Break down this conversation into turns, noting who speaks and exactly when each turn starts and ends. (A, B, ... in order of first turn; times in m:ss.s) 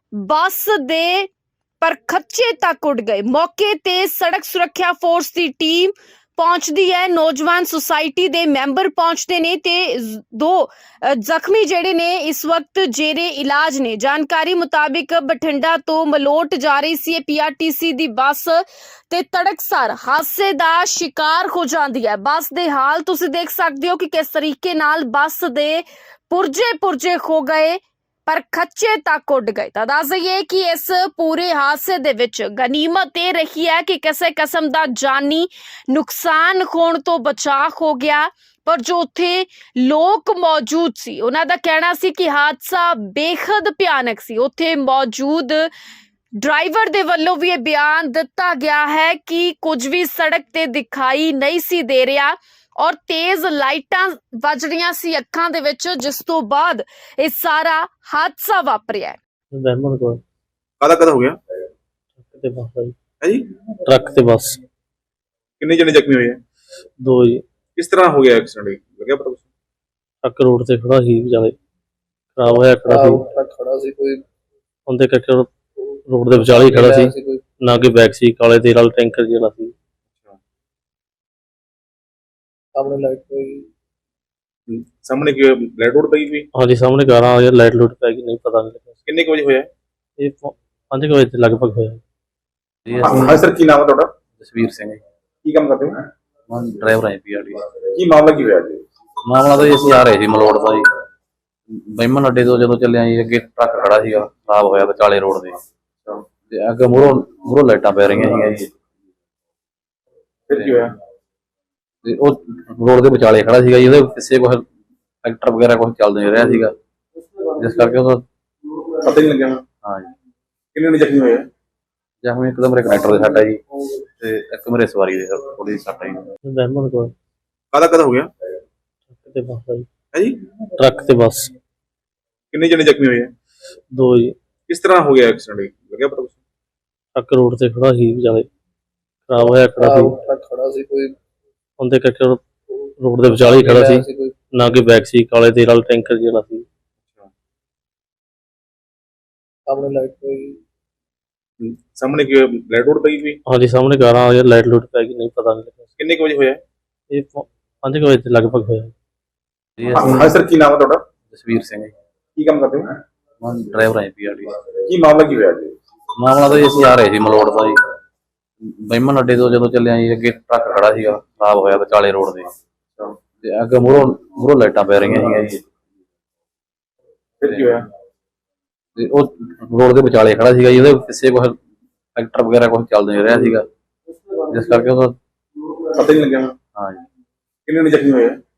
0:00.1-0:01.3 A
0:01.8-0:45.7 A
0:46.4-0:59.2 A
0:59.5-1:00.2 B
1:00.8-1:01.4 C
1:02.2-1:02.9 B
1:03.2-1:03.5 C
1:03.8-1:04.6 B
1:05.6-1:06.4 C
1:07.0-1:07.4 B
1:07.8-1:09.5 C
1:10.2-1:11.5 B
1:12.4-1:13.2 B
1:12.8-1:14.2 D
1:14.9-1:15.5 B
1:16.1-1:19.7 B
1:16.5-1:17.4 D
1:22.7-1:23.7 D
1:24.7-1:26.5 C
1:26.5-1:28.9 B
1:29.0-1:29.7 C
1:30.2-1:32.0 B
1:32.8-1:33.4 E
1:33.0-1:34.1 C
1:34.4-1:35.0 E
1:35.4-1:36.0 C
1:36.5-1:37.7 E
1:37.9-1:38.8 C
1:39.2-1:40.9 E
1:41.7-1:45.6 E
1:46.5-1:48.7 E
1:50.5-1:50.9 C
1:50.5-1:50.8 E
1:52.0-1:54.6 E
1:55.2-1:56.7 E
1:57.6-1:58.2 E
1:59.0-1:59.6 C
1:59.8-2:00.1 E
2:00.7-2:01.4 C
2:02.2-2:03.6 E
2:04.2-2:06.2 E
2:06.4-2:07.1 B
2:07.7-2:08.3 C
2:09.1-2:09.8 B
2:10.1-2:10.4 C
2:10.8-2:11.5 B
2:12.5-2:13.3 C
2:13.9-2:14.3 B
2:14.7-2:16.4 C
2:17.1-2:18.5 B
2:19.3-2:20.2 B
2:19.8-2:21.1 D
2:21.8-2:22.4 B
2:23.0-2:26.6 B
2:23.2-2:24.4 D
2:29.7-2:30.6 D
2:31.6-2:33.4 C
2:33.5-2:35.8 B
2:36.0-2:36.6 C
2:37.1-2:38.9 B
2:39.8-2:40.3 E
2:39.9-2:41.0 C
2:41.3-2:41.9 E
2:42.4-2:42.9 C
2:43.4-2:44.6 E
2:44.9-2:45.8 C
2:46.2-2:47.8 E
2:48.6-2:52.5 E
2:53.4-2:55.6 E
2:57.4-2:57.8 C
2:59.0-3:01.6 E
3:02.1-3:03.6 E
3:04.4-3:05.2 E
3:05.9-3:06.5 C
3:06.7-3:07.0 E
3:07.7-3:08.4 C